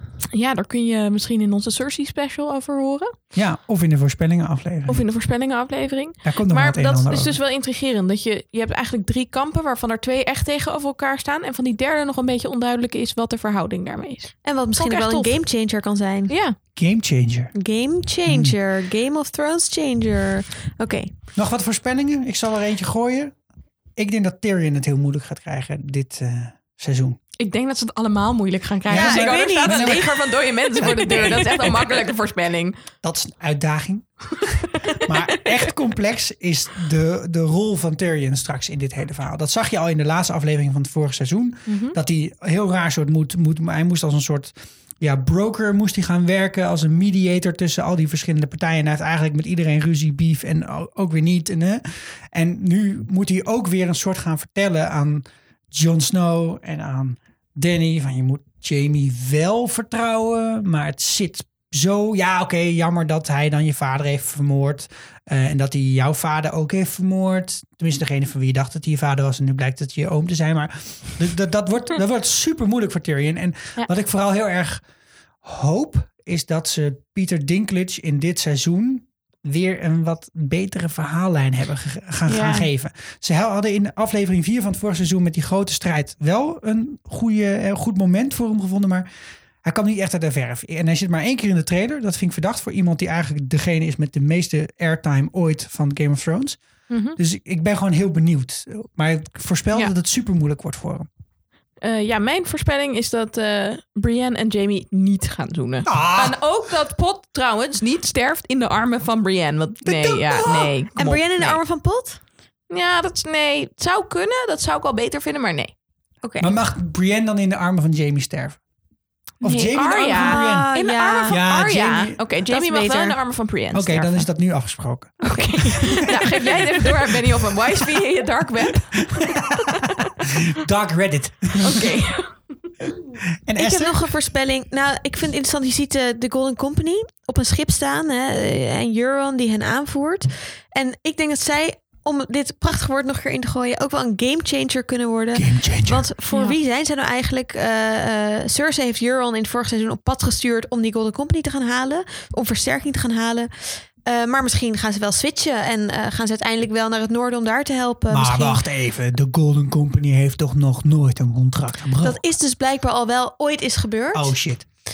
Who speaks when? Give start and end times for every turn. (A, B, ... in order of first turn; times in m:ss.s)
0:00.3-0:03.1 A
0:03.4-0:05.0 B
0:04.9-0:15.3 A
0:06.2-0:07.4 B
0:14.4-0:16.4 C
0:16.3-0:16.6 A
0:16.8-0:17.5 B
0:17.5-0:21.1 C
0:18.2-0:18.6 B
0:21.4-0:23.4 B
0:24.0-0:27.2 B
0:27.4-0:32.8 A
0:28.9-0:30.2 C
0:28.9-0:32.1 B
0:33.0-1:14.8 B
0:34.6-0:35.1 A
0:41.7-0:42.0 A
1:15.4-1:29.1 B
1:22.3-1:22.7 A
1:29.6-1:36.6 B
1:36.9-1:37.2 A
1:37.2-1:41.1 B
1:41.8-1:51.6 A
1:45.9-1:46.4 B
1:49.8-1:50.7 B
1:51.0-1:52.2 C
1:52.7-1:55.7 A
1:56.2-1:56.5 C
1:56.4-1:58.6 B
1:59.4-2:00.7 B
1:59.4-2:04.3 A
2:00.1-2:01.4 C
2:01.3-2:02.2 B
2:02.5-2:03.2 C
2:03.7-2:06.9 B
2:05.2-2:06.2 C
2:05.2-2:10.1 A
2:09.0-2:12.0 B
2:11.6-2:12.3 A
2:13.4-2:14.1 B
2:13.6-2:38.6 C
2:25.3-2:26.1 B
2:26.3-2:26.6 A
2:38.1-2:42.2 B
2:42.0-2:44.4 C
2:44.1-2:44.7 B